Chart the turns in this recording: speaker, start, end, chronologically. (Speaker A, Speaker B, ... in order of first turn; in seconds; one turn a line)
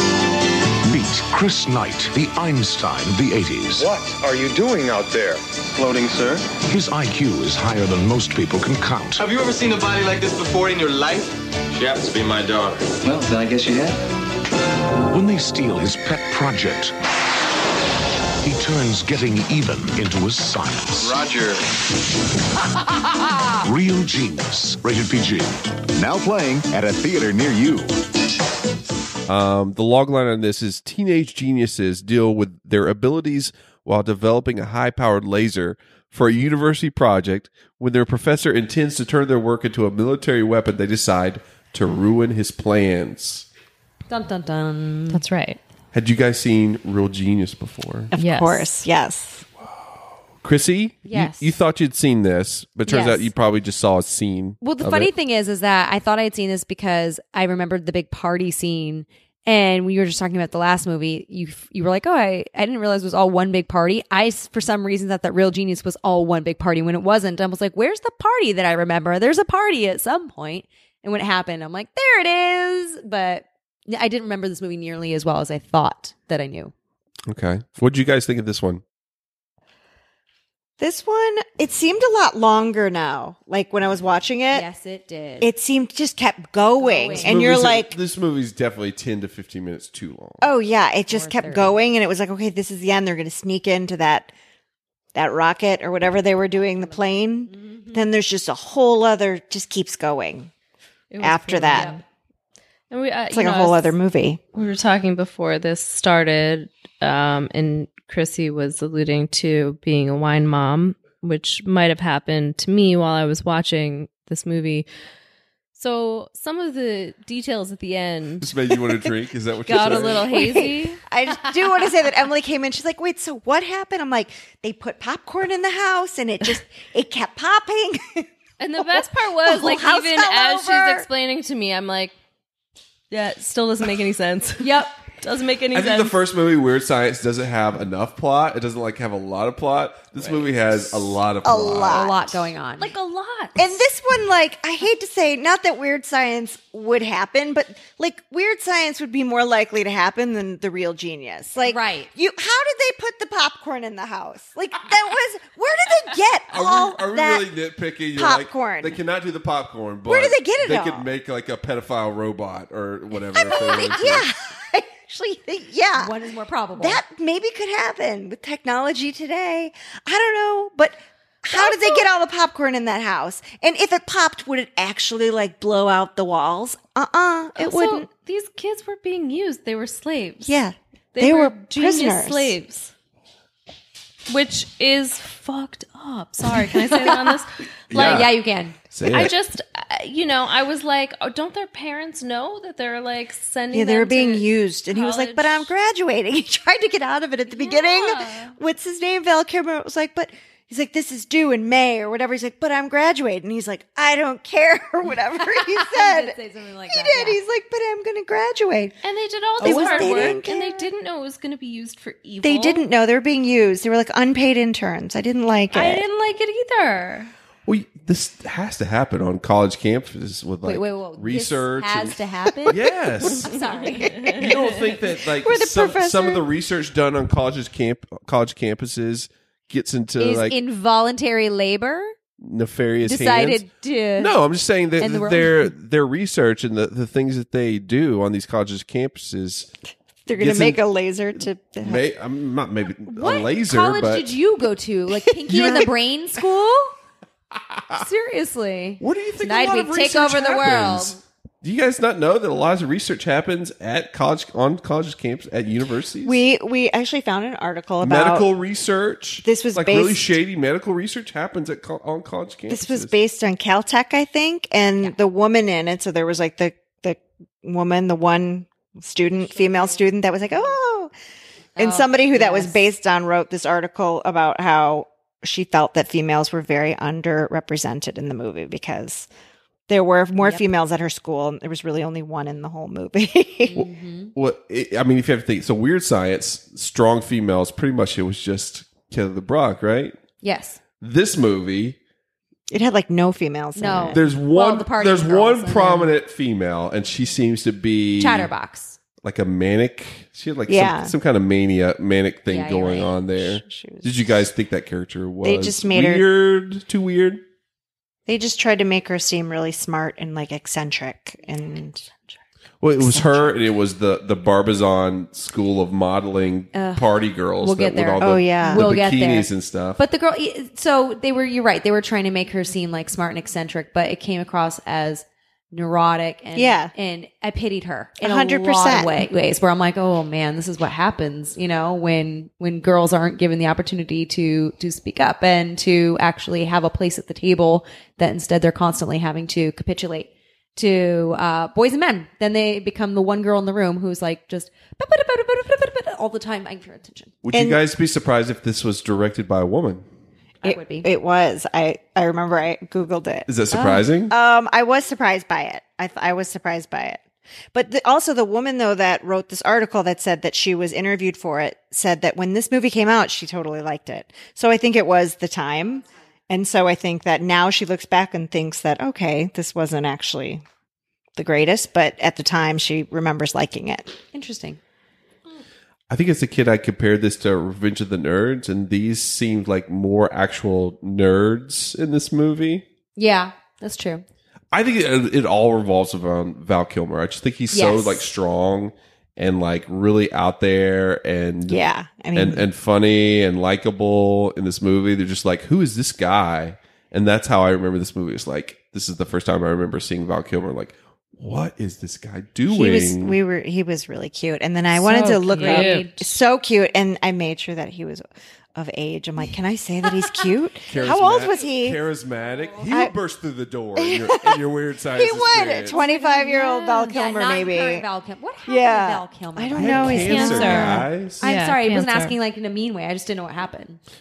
Speaker A: 0.8-3.9
Speaker B: 3.8-6.5
Speaker A: 6.6-9.3
Speaker B: 9.2-14.0
Speaker A: 15.1-16.9
Speaker A: 18.4-21.2
Speaker B: 21.0-21.6
Speaker A: 23.6-25.6
Speaker C: 25.9-27.9
Speaker D: 29.3-43.5
Speaker E: 44.1-45.2
Speaker F: 45.1-45.6
Speaker D: 45.9-48.1
Speaker G: 48.1-49.4
Speaker F: 48.1-48.7
Speaker D: 50.4-55.1
Speaker E: 51.0-51.5
Speaker E: 52.9-53.3
Speaker E: 54.6-76.7
Speaker D: 77.3-78.8
Speaker G: 80.8-84.7
Speaker E: 84.5-85.5
Speaker G: 85.4-88.0
Speaker E: 86.8-87.4
Speaker D: 87.2-90.5
Speaker G: 90.4-94.3
Speaker E: 91.1-91.8
Speaker G: 95.1-100.5
Speaker E: 96.8-98.0
Speaker F: 101.1-102.0
Speaker G: 101.2-101.9
Speaker E: 101.7-102.0
Speaker F: 102.9-103.9
Speaker G: 103.3-104.4
Speaker F: 104.5-114.8
Speaker F: 115.7-118.8
Speaker D: 118.4-120.3
Speaker F: 119.7-121.0
Speaker G: 119.7-131.1
Speaker F: 128.6-132.1
Speaker F: 133.1-136.2
Speaker E: 134.6-135.0
Speaker D: 135.7-142.2
Speaker G: 141.4-142.1
Speaker E: 141.8-142.9
Speaker F: 142.8-143.6
Speaker G: 143.6-157.5
Speaker E: 151.6-152.1
Speaker D: 156.5-164.3
Speaker G: 158.1-159.0
Speaker G: 160.1-161.1
Speaker G: 163.3-166.1
Speaker E: 165.9-167.0
Speaker G: 166.8-178.1
Speaker F: 177.6-180.6
Speaker G: 180.4-182.6
Speaker F: 181.1-182.9
Speaker F: 184.3-188.3
Speaker E: 186.7-187.4
Speaker D: 187.9-188.3
Speaker E: 187.9-188.8
Speaker D: 188.9-189.3
Speaker F: 189.1-195.7
Speaker G: 193.7-209.0
Speaker F: 197.5-198.5
Speaker E: 205.3-207.4
Speaker F: 209.0-212.8
Speaker G: 209.6-210.9
Speaker E: 209.6-210.3
Speaker G: 212.4-216.0
Speaker F: 215.7-217.3
Speaker D: 217.7-222.2
Speaker E: 220.6-224.2
Speaker D: 222.7-223.5
Speaker G: 223.7-224.5
Speaker F: 224.2-224.6
Speaker D: 224.4-230.6
Speaker G: 225.4-226.4
Speaker E: 230.2-232.1
Speaker D: 232.4-233.6
Speaker E: 233.0-234.3
Speaker D: 234.2-239.7
Speaker E: 235.0-235.7
Speaker G: 240.2-242.0
Speaker D: 240.3-240.8
Speaker D: 241.8-244.3
Speaker E: 243.1-246.9
Speaker G: 245.5-245.9
Speaker D: 245.5-245.9
Speaker E: 247.9-251.2
Speaker D: 249.0-256.4
Speaker G: 256.2-258.5
Speaker D: 258.0-263.1
Speaker G: 259.4-260.3
Speaker G: 262.7-271.1
Speaker E: 269.7-270.0
Speaker E: 271.8-272.8
Speaker G: 271.8-279.3
Speaker G: 279.9-283.8
Speaker E: 280.4-280.7
Speaker E: 283.6-284.3
Speaker D: 283.8-290.1
Speaker E: 290.4-290.8
Speaker D: 291.0-292.0
Speaker G: 292.7-294.2
Speaker E: 293.8-296.1
Speaker D: 294.1-298.5
Speaker E: 298.2-299.0
Speaker D: 299.2-307.4
Speaker G: 300.7-301.1
Speaker E: 302.5-303.1
Speaker G: 303.4-304.3
Speaker G: 305.4-306.2
Speaker G: 308.3-312.2
Speaker D: 312.8-320.0
Speaker G: 313.0-313.5
Speaker E: 316.7-347.3
Speaker G: 318.2-318.8
Speaker G: 326.5-326.9
Speaker G: 328.2-329.2
Speaker D: 347.4-350.0
Speaker G: 347.5-347.8
Speaker E: 350.6-351.1
Speaker G: 350.6-353.5
Speaker D: 353.5-354.3
Speaker E: 353.7-354.0
Speaker G: 354.3-357.2
Speaker G: 357.7-370.6
Speaker G: 371.4-374.2
Speaker E: 374.3-374.8
Speaker D: 376.1-382.8
Speaker E: 383.1-384.2
Speaker D: 384.7-391.8
Speaker E: 387.7-388.2
Speaker G: 391.7-392.6
Speaker D: 392.3-403.4
Speaker G: 402.7-412.0
Speaker F: 405.0-406.1
Speaker E: 405.5-406.2
Speaker D: 410.9-415.9
Speaker E: 412.5-412.8
Speaker G: 412.9-413.1
Speaker G: 414.0-414.6
Speaker G: 415.1-418.1
Speaker E: 415.9-424.0
Speaker G: 418.6-421.1
Speaker D: 419.7-421.4
Speaker F: 420.1-422.4